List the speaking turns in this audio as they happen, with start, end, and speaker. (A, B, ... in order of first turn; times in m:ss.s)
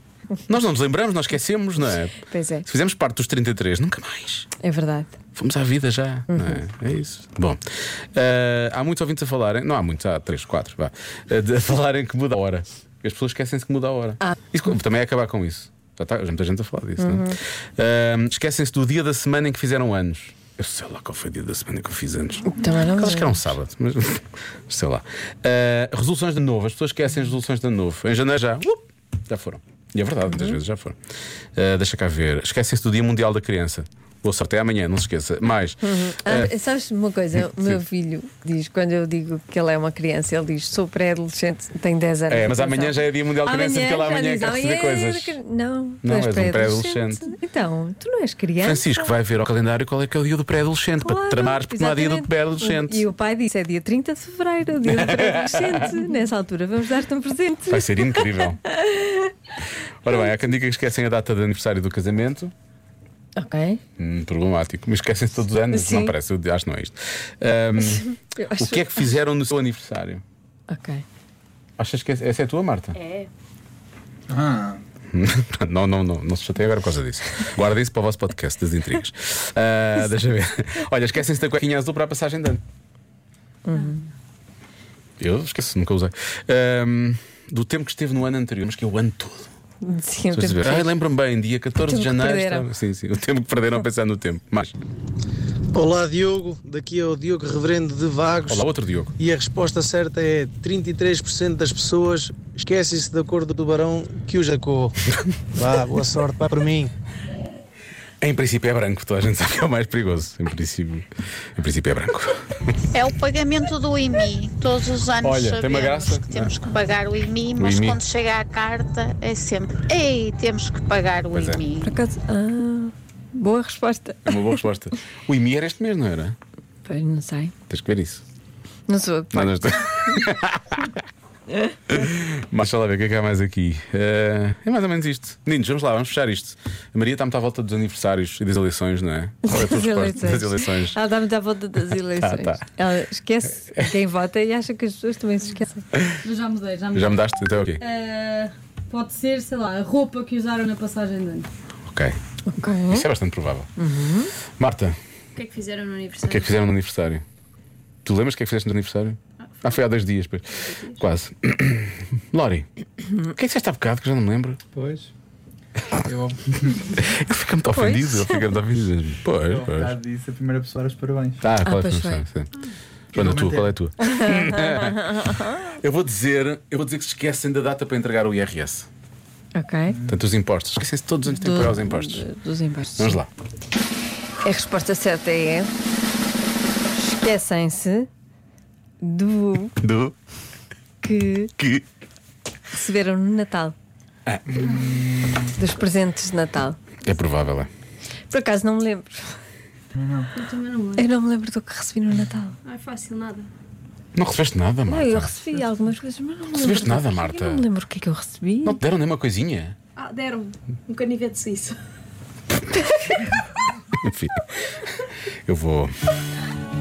0:00.5-0:04.5 A
0:02.2-0:02.7 B
0:04.6-0:05.2 B
0:05.4-0:07.6 A
0:06.3-0:06.6 B
0:08.1-0:31.0 A
0:17.0-0:17.4 B
0:22.5-0:23.5 B
0:30.2-0:30.6 B
0:31.6-0:36.5 A
0:35.8-0:49.2 B
0:37.4-0:37.8 A
0:42.3-0:45.4 A
0:46.0-0:47.3 A
0:48.6-0:53.1 A
0:51.0-0:59.3 B
0:54.8-0:55.9 A
0:57.7-0:58.6 A
1:00.0-1:02.5 A
1:03.4-1:03.8 B
1:04.0-1:10.2 A
1:05.7-1:06.2 B
1:07.8-1:09.0 B
1:10.7-1:11.0 B
1:11.8-1:13.0 A
1:13.0-1:13.3 C
1:14.3-1:14.8 D
1:15.1-1:22.6 A
1:23.7-1:24.0 B
1:25.2-1:29.5 A
1:29.8-1:30.9 B
1:30.3-1:34.7 A
1:31.8-1:32.7 B
1:35.7-1:38.6 E
1:38.5-1:39.1 A
1:39.2-1:45.0 E
1:45.6-1:46.9 E
1:48.2-1:52.7 A
1:52.9-2:01.9 F
1:55.2-1:56.5 A
1:57.6-1:58.0 A
2:01.3-2:01.6 A
2:01.8-2:04.6 B
2:04.3-2:06.4 A
2:06.8-2:07.5 B
2:07.7-2:08.2 A
2:08.9-2:10.0 B
2:09.3-2:11.0 A
2:11.9-2:21.0 A
2:19.4-2:25.8 B
2:21.9-2:22.7 A
2:26.2-2:26.9 C
2:26.9-2:27.8 A
2:27.8-2:31.5 C
2:31.9-2:32.2 A
2:32.5-2:33.1 B
2:32.9-2:33.7 A
2:33.8-2:34.3 B
2:34.6-2:35.0 A
2:35.4-2:36.5 C
2:36.3-2:37.2 A
2:38.0-2:42.7 A
2:40.6-2:41.0 C
2:43.3-2:44.6 A
2:44.7-2:45.1 D
2:46.0-2:46.9 D
2:47.0-2:50.0 A
2:47.7-2:48.5 B
2:49.4-2:51.4 D
2:51.4-2:52.5 A
2:51.6-2:52.2 B
2:53.1-2:58.9 A
2:53.1-2:53.7 D
2:54.0-2:55.6 B
2:59.6-3:00.0 B
3:00.1-3:02.3 A
3:01.3-3:03.2 B
3:03.0-3:03.3 A
3:04.4-3:05.7 B
3:07.0-3:08.1 B
3:09.0-3:09.8 B
3:09.8-3:10.2 A
3:11.0-3:11.5 B
3:12.7-3:13.8 B
3:14.3-3:14.9 A
3:15.4-3:16.9 B
3:17.0-3:17.7 A
3:18.3-3:19.4 B
3:20.0-3:20.3 D
3:20.4-3:21.1 C
3:21.0-3:22.6 B
3:22.6-3:23.5 C
3:24.2-3:25.3 A
3:24.9-3:28.8 B
3:26.5-3:27.7 A
3:28.6-3:29.8 A
3:30.0-3:31.8 C
3:32.9-3:33.3 B
3:34.0-3:34.9 A
3:35.4-3:35.9 A